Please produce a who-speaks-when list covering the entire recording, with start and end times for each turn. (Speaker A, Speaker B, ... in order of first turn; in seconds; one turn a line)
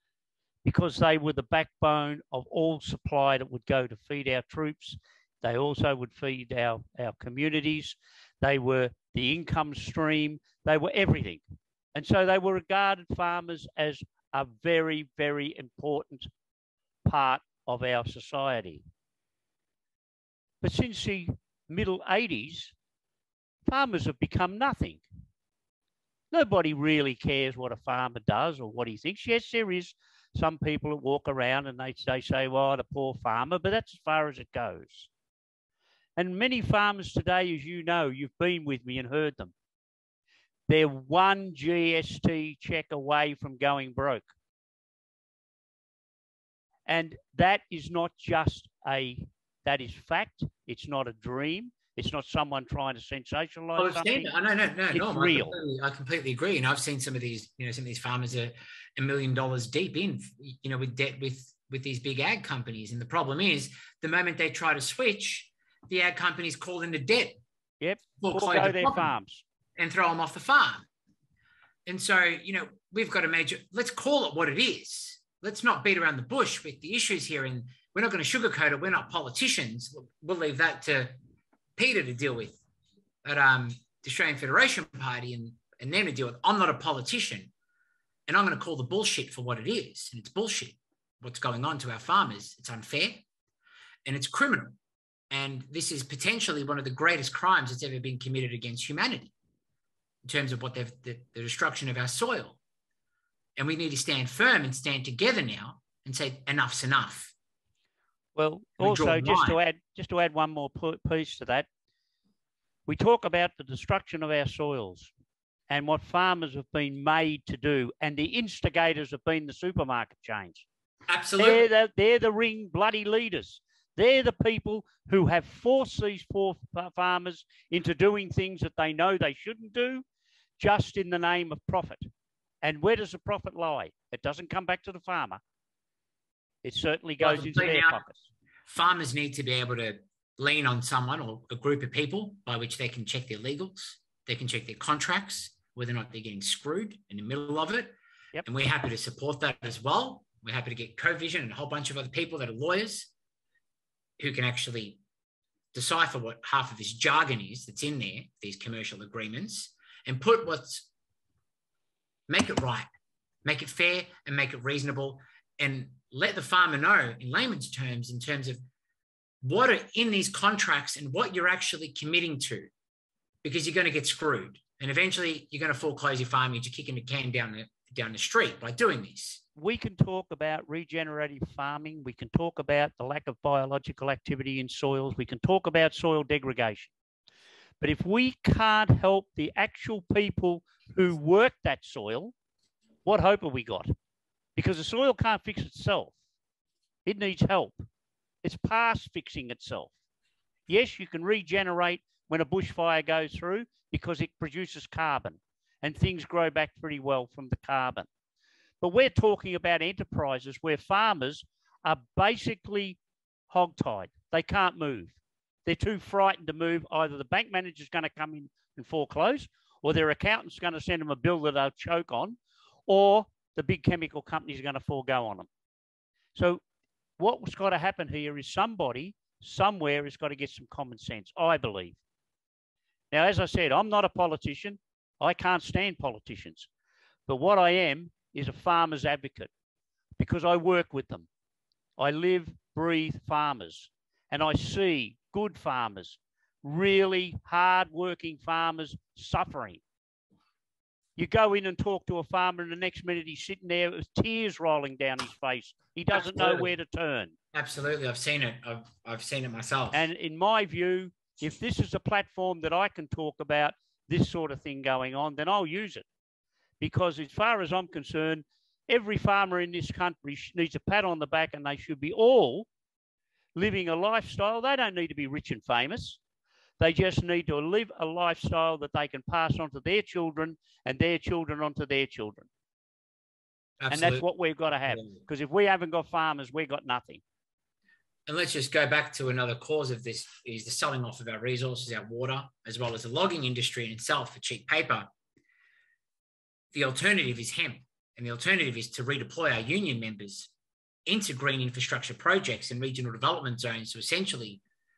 Speaker A: 0.6-11.4
Speaker A: 11.9-16.3
Speaker A: 17.0-18.8
Speaker A: 20.6-22.7
Speaker A: 23.6-25.0
Speaker A: 26.3-35.1
Speaker A: 36.2-39.5
Speaker A: 40.7-44.3
Speaker A: 46.9-54.3
Speaker B: 53.8-67.4
Speaker A: 54.9-55.6
Speaker A: 67.8-69.4
Speaker B: 68.2-69.1
Speaker B: 69.8-70.8
Speaker B: 71.8-81.2
Speaker B: 81.8-82.6
Speaker B: 83.2-87.5
Speaker B: 88.3-93.2
Speaker B: 94.0-94.8
Speaker B: 95.3-99.3
Speaker B: 100.2-102.6
Speaker B: 103.6-107.3
Speaker A: 108.3-111.7
Speaker B: 108.8-109.6
Speaker A: 112.9-115.1
Speaker A: 115.7-120.7
Speaker B: 121.1-121.7
Speaker A: 121.4-130.0
Speaker A: 130.6-132.1
Speaker A: 132.6-135.4
Speaker A: 136.6-138.2
Speaker B: 137.2-138.0
Speaker B: 138.7-153.1
Speaker B: 154.2-155.0
Speaker B: 155.7-160.9
Speaker B: 162.3-162.9
Speaker B: 163.4-168.6
Speaker B: 169.4-172.7
Speaker B: 173.4-179.4
Speaker A: 179.6-186.9
Speaker A: 187.8-192.3
Speaker A: 193.0-193.9
Speaker A: 194.6-196.1
Speaker A: 197.1-197.8
Speaker A: 198.4-199.9
Speaker A: 200.7-208.1
Speaker A: 208.8-213.0
Speaker A: 213.5-225.5
Speaker A: 226.3-226.6
Speaker A: 227.2-232.0
Speaker A: 233.1-236.7
Speaker A: 237.3-239.5
Speaker A: 240.2-241.3
Speaker A: 242.0-249.8
Speaker A: 251.2-257.3
Speaker B: 256.1-256.7
Speaker B: 257.5-260.1
Speaker A: 259.9-266.0
Speaker A: 266.8-272.7
Speaker A: 273.6-276.2
Speaker A: 276.8-282.5
Speaker B: 283.8-284.2
Speaker A: 283.9-287.2
Speaker B: 284.9-285.2
Speaker B: 288.3-295.1
Speaker B: 296.7-300.5
Speaker B: 301.1-304.6